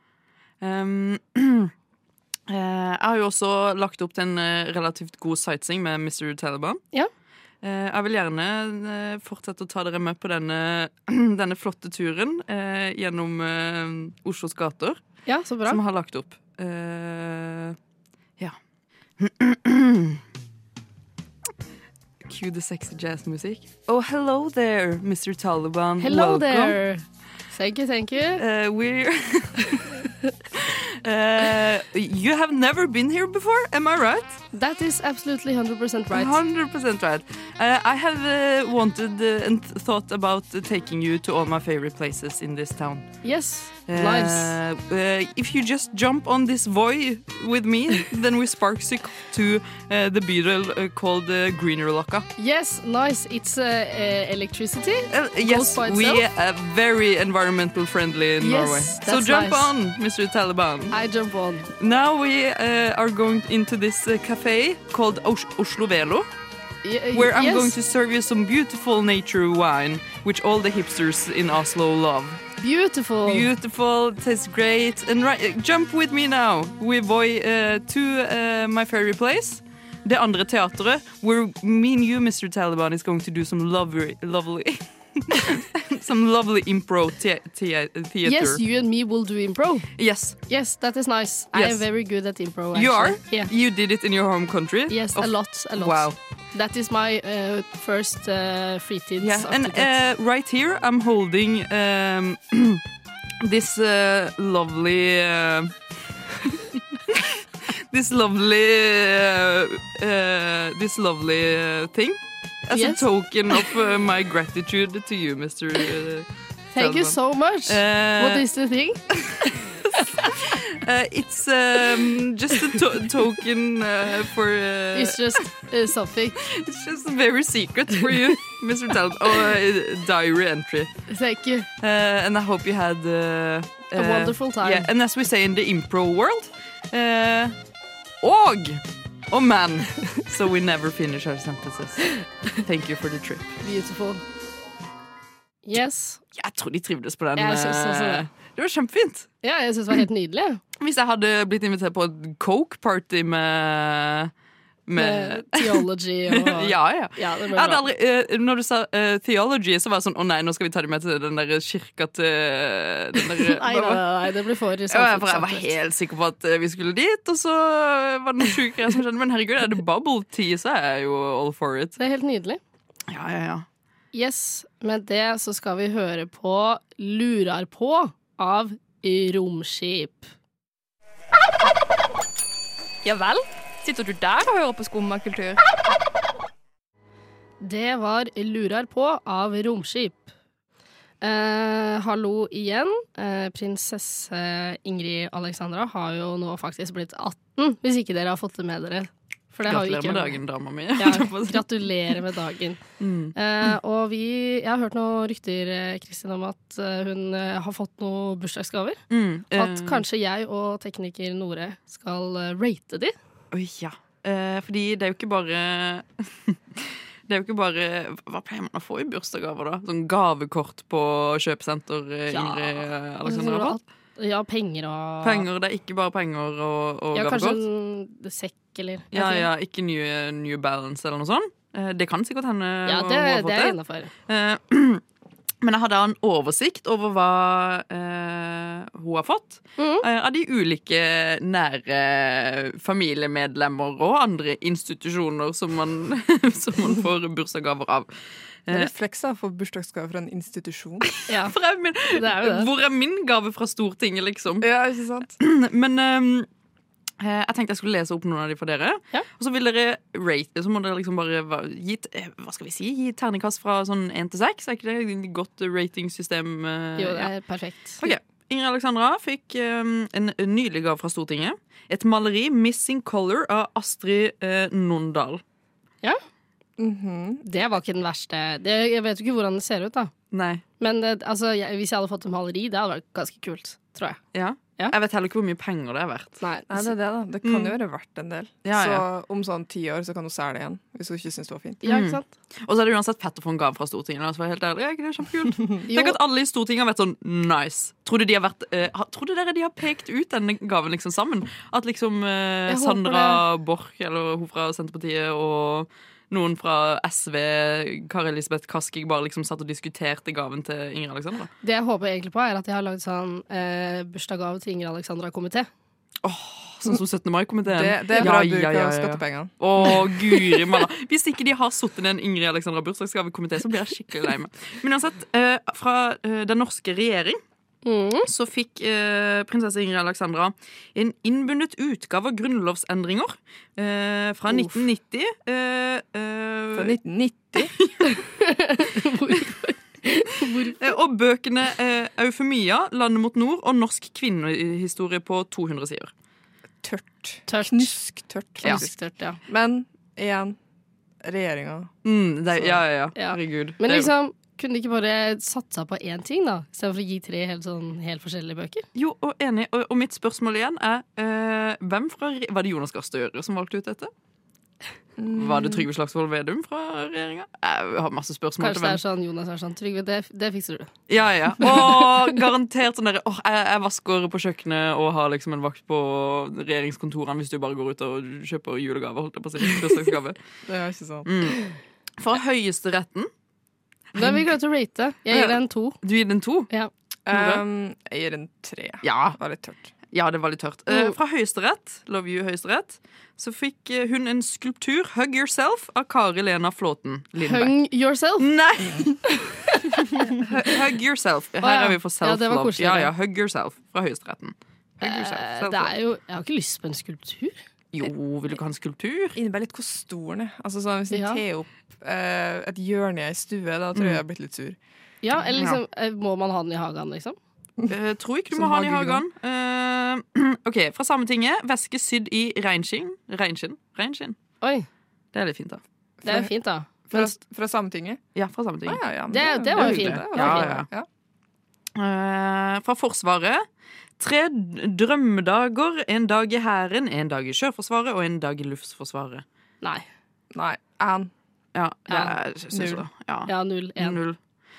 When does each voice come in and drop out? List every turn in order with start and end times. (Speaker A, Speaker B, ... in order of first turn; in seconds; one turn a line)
Speaker A: 0.6-1.7
Speaker A: 2.5-6.8
Speaker A: 7.6-15.0
Speaker B: 15.3-15.8
Speaker A: 15.7-17.8
Speaker A: 19.2-20.2
Speaker A: 22.2-26.8
Speaker B: 26.0-28.4
Speaker A: 28.4-30.0
Speaker A: 30.5-34.4
Speaker B: 34.5-36.4
Speaker A: 36.1-43.1
Speaker B: 43.2-44.6
Speaker A: 43.9-52.3
Speaker B: 52.4-56.2
Speaker A: 55.1-61.0
Speaker B: 58.4-59.7
Speaker B: 60.9-61.7
Speaker A: 61.8-66.3
Speaker B: 66.8-67.8
Speaker A: 67.1-72.4
Speaker B: 72.6-73.5
Speaker A: 73.2-88.6
Speaker B: 88.2-89.9
Speaker A: 90.0-90.4
Speaker B: 90.5-93.5
Speaker A: 91.5-91.8
Speaker A: 92.7-96.2
Speaker B: 94.9-100.0
Speaker A: 99.2-102.8
Speaker A: 103.4-105.8
Speaker A: 106.3-118.5
Speaker B: 112.7-113.7
Speaker B: 116.8-120.3
Speaker A: 119.1-125.4
Speaker B: 124.9-126.4
Speaker A: 126.4-130.9
Speaker B: 131.1-131.7
Speaker A: 131.8-137.5
Speaker B: 133.9-134.9
Speaker A: 138.2-143.6
Speaker B: 143.6-144.2
Speaker B: 145.7-146.2
Speaker A: 146.3-149.3
Speaker B: 147.4-148.2
Speaker B: 149.4-150.6
Speaker A: 150.8-154.3
Speaker A: 154.9-164.0
Speaker B: 154.9-157.8
Speaker B: 163.4-165.7
Speaker A: 164.9-172.0
Speaker B: 172.0-172.6
Speaker A: 173.1-173.7
Speaker B: 174.1-180.3
Speaker C: 183.1-185.6
Speaker B: 187.6-190.3
Speaker B: 191.2-200.4
Speaker A: 199.7-202.2
Speaker B: 201.0-202.8
Speaker A: 203.0-203.8
Speaker B: 203.4-209.0
Speaker A: 209.1-210.0
Speaker B: 209.5-213.1
Speaker A: 213.5-223.8
Speaker B: 222.3-225.5
Speaker A: 225.2-227.6
Speaker B: 227.2-229.5
Speaker A: 229.1-233.8
Speaker B: 232.9-234.1
Speaker A: 234.3-235.0
Speaker A: 235.6-248.1
Speaker B: 239.8-240.1
Speaker A: 248.7-248.9
Speaker D: 248.7-251.1
Speaker B: 251.3-251.5
Speaker A: 251.3-254.7
Speaker B: 252.1-252.7
Speaker D: 254.6-255.3
Speaker A: 255.4-256.5
Speaker A: 257.2-267.3
Speaker B: 267.0-268.1
Speaker A: 268.0-275.4
Speaker D: 276.8-277.4
Speaker B: 277.4-280.1
Speaker A: 280.3-280.6
Speaker B: 280.8-284.2
Speaker A: 284.3-286.4
Speaker B: 286.4-286.9
Speaker D: 286.7-291.8
Speaker A: 287.4-287.8
Speaker A: 288.6-289.1
Speaker B: 291.8-292.2
Speaker A: 291.9-311.5
Speaker B: 295.9-296.2
Speaker B: 302.7-303.4
Speaker B: 311.6-315.7
Speaker A: 316.2-327.4
Speaker D: 317.6-320.1
Speaker B: 327.9-328.3
Speaker A: 328.3-337.0
Speaker B: 334.5-334.8
Speaker D: 336.8-337.7
Speaker A: 337.8-338.1
Speaker B: 338.0-340.8
Speaker A: 340.8-346.1
Speaker D: 346.8-350.6
Speaker B: 347.5-348.0
Speaker B: 348.6-349.4
Speaker D: 351.2-351.9
Speaker A: 352.1-354.1
Speaker D: 352.5-352.8
Speaker B: 353.2-358.9
Speaker A: 358.9-364.1
Speaker D: 365.2-365.9
Speaker A: 365.3-369.0
Speaker B: 368.6-370.9
Speaker A: 371.1-380.4
Speaker B: 371.6-372.1
Speaker D: 380.7-381.5
Speaker A: 381.3-381.6
Speaker A: 382.2-383.3
Speaker A: 384.1-384.4
Speaker B: 384.2-386.0
Speaker A: 385.3-386.7
Speaker D: 387.3-389.9
Speaker A: 387.3-387.6
Speaker A: 389.0-389.4
Speaker A: 390.1-397.7
Speaker B: 397.4-398.5
Speaker A: 398.4-405.9
Speaker D: 398.8-399.0
Speaker B: 399.4-400.2
Speaker B: 401.6-403.1
Speaker B: 405.0-407.6
Speaker A: 407.9-409.4
Speaker D: 409.4-414.8
Speaker B: 411.1-411.4
Speaker A: 413.9-414.2
Speaker B: 415.2-417.4
Speaker A: 417.9-424.4
Speaker D: 418.5-419.2
Speaker B: 424.6-424.9
Speaker A: 425.3-425.8
Speaker D: 426.2-426.5
Speaker B: 426.2-427.3
Speaker D: 427.1-428.2
Speaker A: 428.4-429.0
Speaker D: 428.9-431.1
Speaker B: 429.3-430.7
Speaker A: 429.8-430.9
Speaker A: 431.9-433.6
Speaker A: 434.2-439.4
Speaker D: 440.5-441.3
Speaker A: 441.8-444.4
Speaker B: 442.1-442.4
Speaker D: 442.7-443.0
Speaker B: 443.5-444.2